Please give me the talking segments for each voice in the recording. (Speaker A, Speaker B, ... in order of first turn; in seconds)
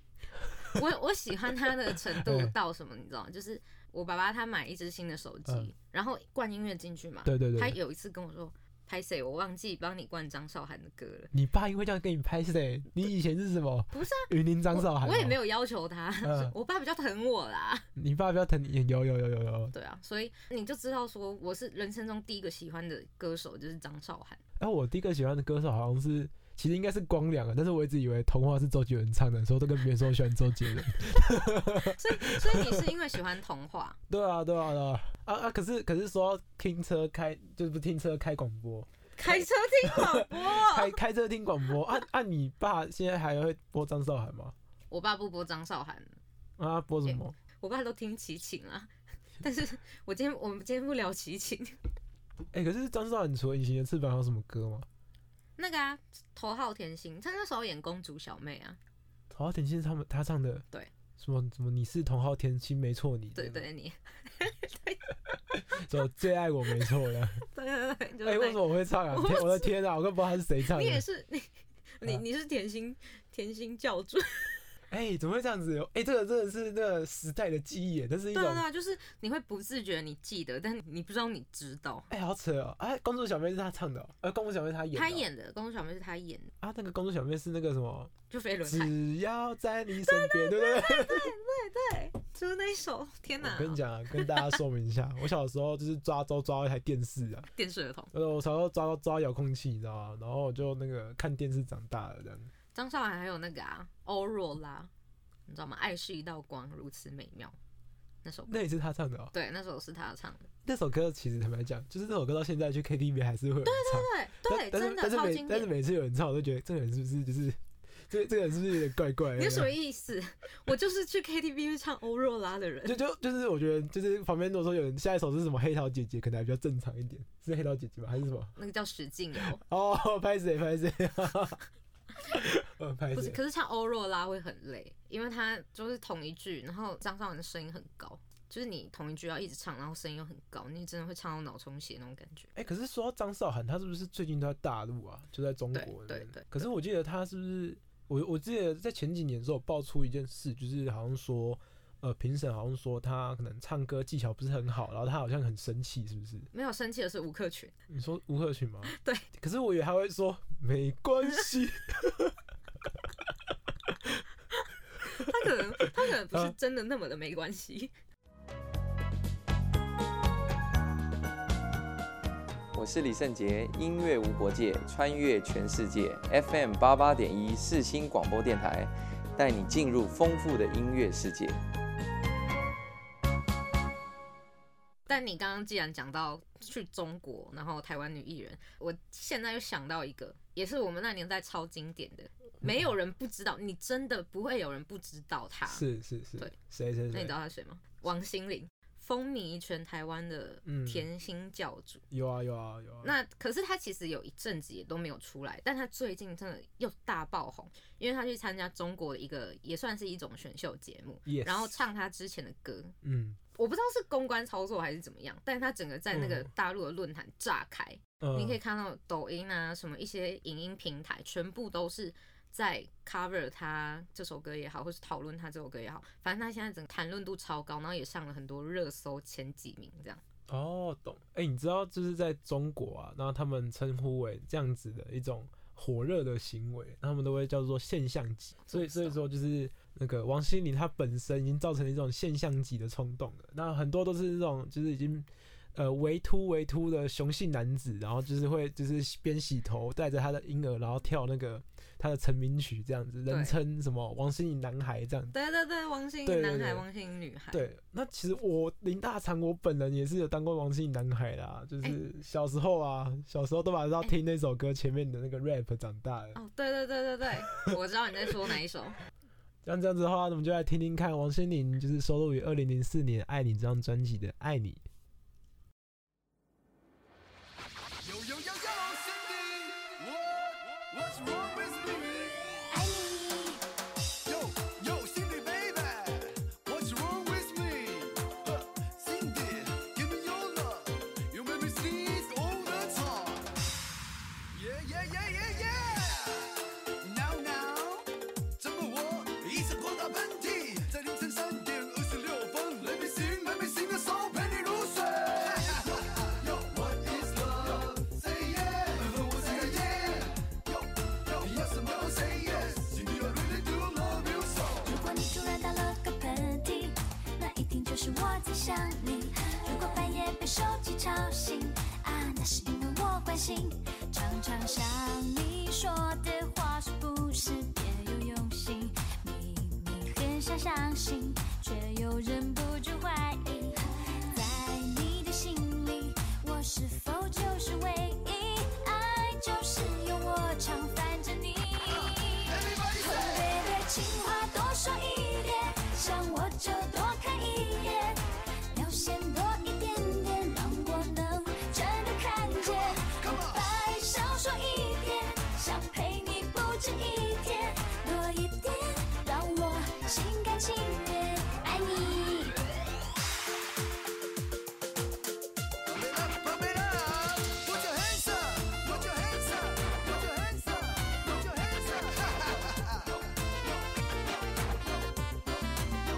Speaker A: 0.7-11.3, 13.9-17.9, 19.7-24.4, 31.2-34.0, 39.2-41.0, 44.9-46.2, 47.1-48.9, 49.4-51.8, 55.6-58.8, 63.4-65.0, 67.4-69.7, 70.7-74.6, 78.3-82.1, 84.9-86.5, 88.3-88.9, 90.0-94.5, 97.5-98.1, 102.7-104.9, 105.5-107.6, 108.2-108.6, 109.3-110.5, 113.6-115.7, 119.4-123.0, 128.6-129.6, 133.1-142.5, 145.7-146.7, 156.5-157.7, 158.9-159.2, 165.0-167.9, 185.1-195.8, 197.1-202.0, 203.0-212.9, 213.6-230.2, 238.7-239.2, 253.3-253.6, 255.3-257.6, 266.4-269.0
Speaker B: 2.1-2.5, 7.2-7.8, 11.3-15.4, 16.2-16.5, 18.0-19.7, 24.6-32.8, 34.1-44.5, 46.6-47.4, 52.5-54.9, 59.3-60.6, 61.2-63.7, 65.5-67.4, 68.2-71.0, 74.9-78.7, 82.1-85.3, 86.6-88.1, 88.7-91.3, 93.4-97.5, 98.1-102.5, 108.5-109.3, 110.6-117.6, 118.1-119.7, 122.8-128.6, 129.6-131.6, 132.3-133.4, 142.6-156.5, 157.9-162.4, 163.9-164.2, 192.6-192.9, 195.7-197.4, 200.7-201.1, 202.1-203.1, 211.3-211.8, 213.0-213.4, 216.1-216.5, 218.2-218.6, 230.5-255.3, 256.2-256.9, 257.5-266.4, 269.6-274.8
Speaker C: 172.7-181.6
Speaker D: 278.0-282.4, 284.3-293.5, 294.5-298.1, 298.6-314.9, 342.0-343.5, 353.2-353.6, 365.9-373.2
Speaker E: 282.7-283.6, 314.8-362.6